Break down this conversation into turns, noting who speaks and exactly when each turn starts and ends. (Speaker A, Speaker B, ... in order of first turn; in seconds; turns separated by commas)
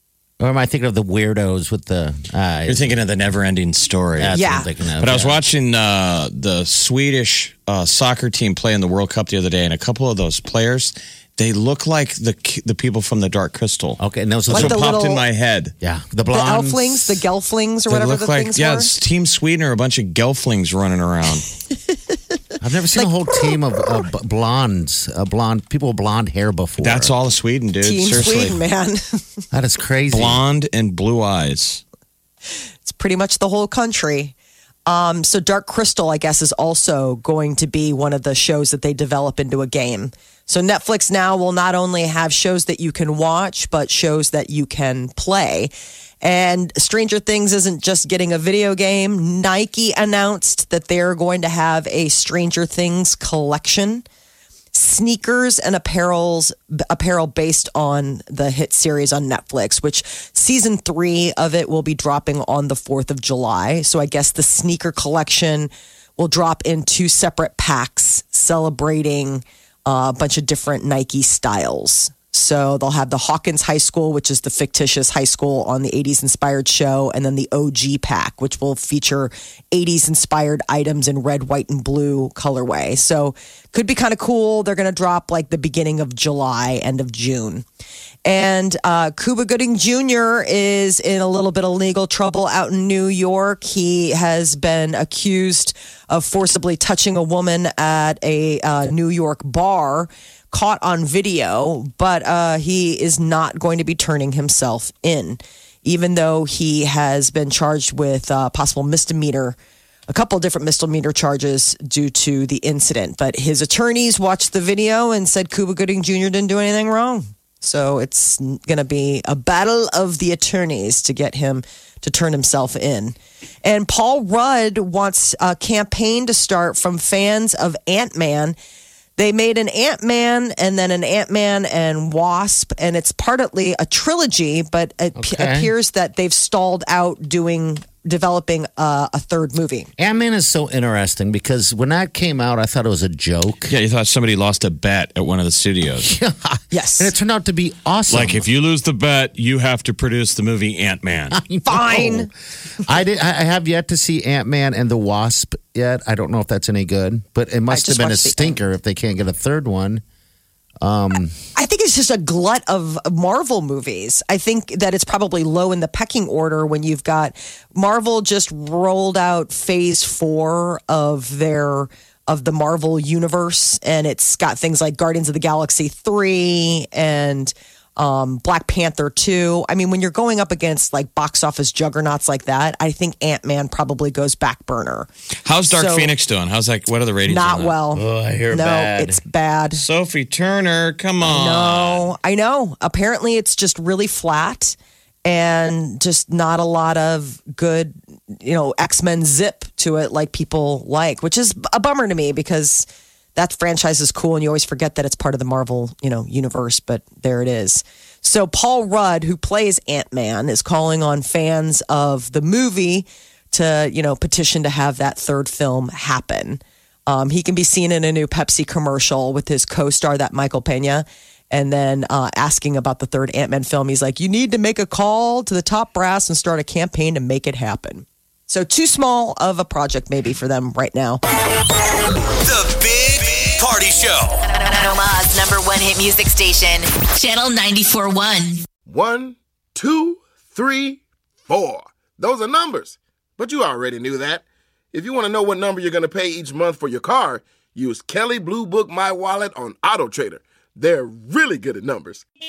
Speaker A: 0.4-2.9, Speaker B: 2.7-4.4, Speaker A: 4.2-5.4, Speaker C: 4.3-4.7, Speaker B: 5.0-15.7, Speaker A: 14.0-14.9, Speaker C: 14.5-15.2, Speaker A: 15.8-17.2, Speaker C: 16.3-18.9, Speaker B: 17.9-21.5, Speaker A: 22.6-27.1, Speaker B: 26.8-28.6, Speaker C: 27.8-29.2, Speaker A: 29.5-30.4, Speaker B: 30.1-31.8, Speaker C: 32.8-34.3, Speaker C: 34.9-54.0, Speaker C: 54.7-87.7, Speaker C: 88.2-109.6, Speaker C: 110.1-128.6, Speaker C: 129.2-139.9, Speaker A: 135.2-135.7, Speaker A: 140.0-143.7, Speaker B: 143.7-146.1, Speaker A: 146.0-148.5, Speaker C: 146.7-147.1, Speaker B: 148.1-151.4, Speaker A: 151.3-152.3, Speaker C: 151.7-152.3, Speaker A: 152.8-160.0, Speaker C: 157.7-158.6, Speaker A: 160.8-161.4, Speaker C: 161.6-185.1, Speaker B: 185.4-187.8, Speaker C: 185.7-186.1, Speaker C: 187.3-189.8, Speaker A: 187.9-189.2, Speaker B: 189.7-192.1, Speaker C: 191.2-231.2, Speaker D: 232.4-234.4, Speaker E: 234.5-238.7, Speaker F: 238.9-252.2